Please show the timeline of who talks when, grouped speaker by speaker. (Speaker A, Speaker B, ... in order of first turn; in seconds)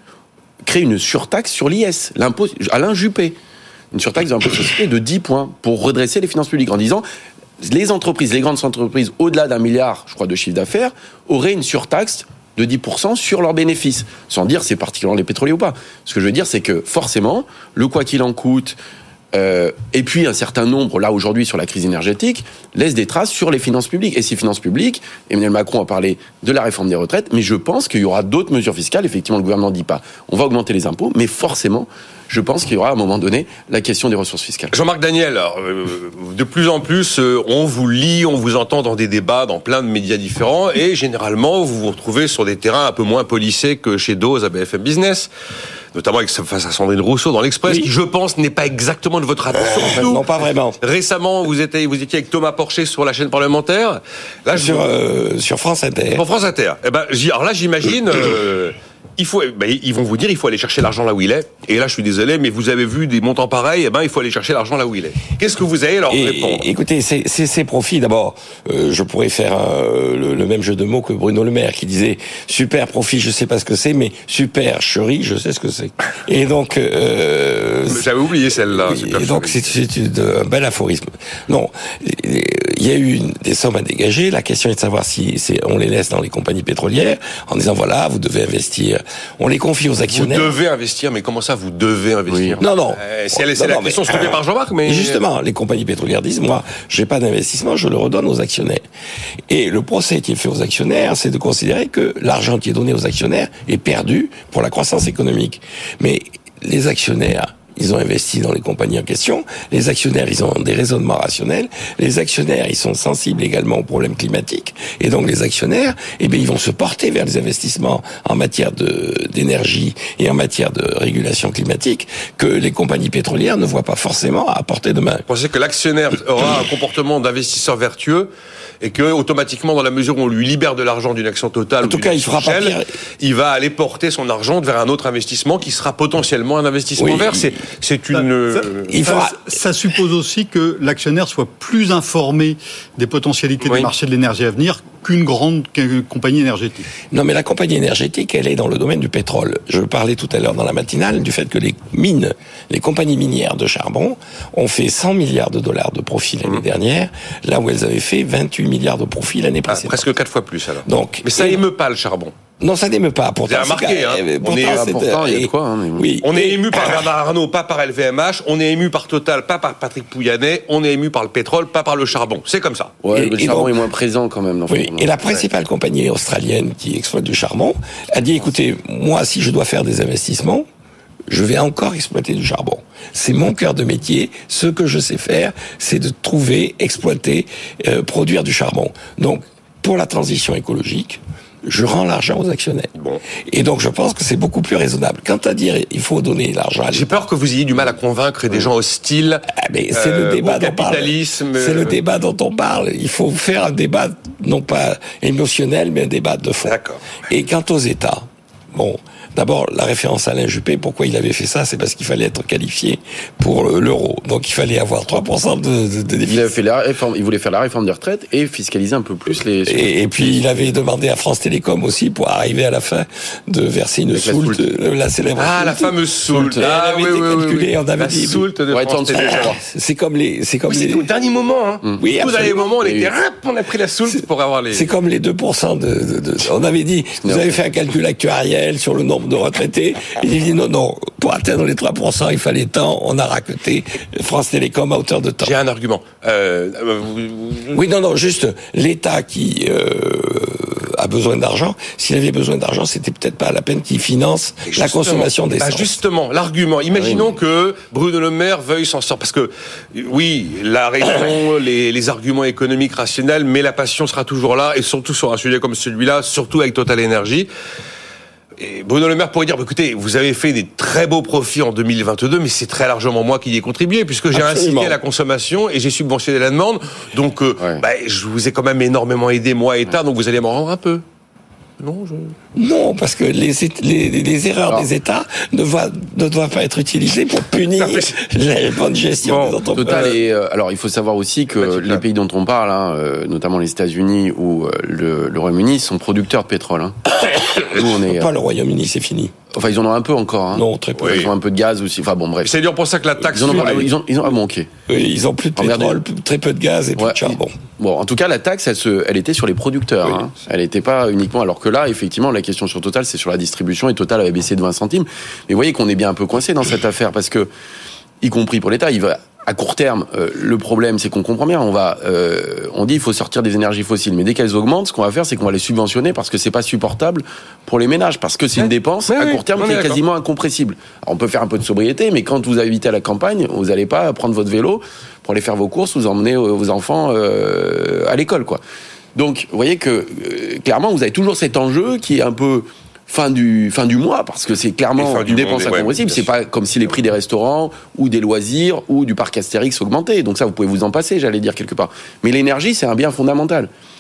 Speaker A: 0.7-3.4, 3.9-7.0, 7.6-18.8, 19.3-34.7, 92.3-92.6, 164.5-166.1, 173.0-175.1, 216.2-220.6, 224.1-224.6, 226.3-226.7, 228.7-229.6, 232.8-233.1, 237.2-237.6, 256.9-257.3, 289.8-297.0, 297.5-298.3, 299.5-302.5, 303.3-304.7, 305.6-306.0, 307.0-317.5, 318.2-338.6, 339.1-353.7
Speaker B: 34.7-45.3, 45.9-50.3, 50.8-54.9, 56.1-66.7, 77.9-79.7, 90.1-95.2, 125.3-128.3, 128.8-139.0, 143.6-143.9, 159.7-162.3, 163.5-165.0, 166.2-172.9, 192.9-193.2, 196.9-201.9, 206.7-207.0, 225.4-229.6, 230.7-234.8, 245.4-247.8, 254.6-267.5, 268.6-281.0, 281.8-282.3, 287.8-288.1, 289.2-290.2, 291.5-292.0, 301.0-301.3, 302.4-303.9, 328.6-330.0, 344.9-346.3
Speaker C: 49.6-50.8, 54.5-56.2, 66.1-78.0, 78.8-90.5, 92.6-98.8, 99.5-125.2, 131.8-132.9, 137.0-137.5, 138.8-139.6, 147.1-160.1, 160.8-161.6, 162.6-167.0, 173.1-173.8, 174.7-180.6, 181.3-192.9, 193.5-197.1, 199.5-206.8, 207.3-216.5, 219.7-228.5, 229.1-231.1, 232.0-232.7, 234.7-245.5, 247.7-256.0, 274.3-275.0, 282.5-290.2, 297.2-299.3, 300.5-301.3, 303.5-303.9, 304.9-307.6
Speaker D: 138.9-146.9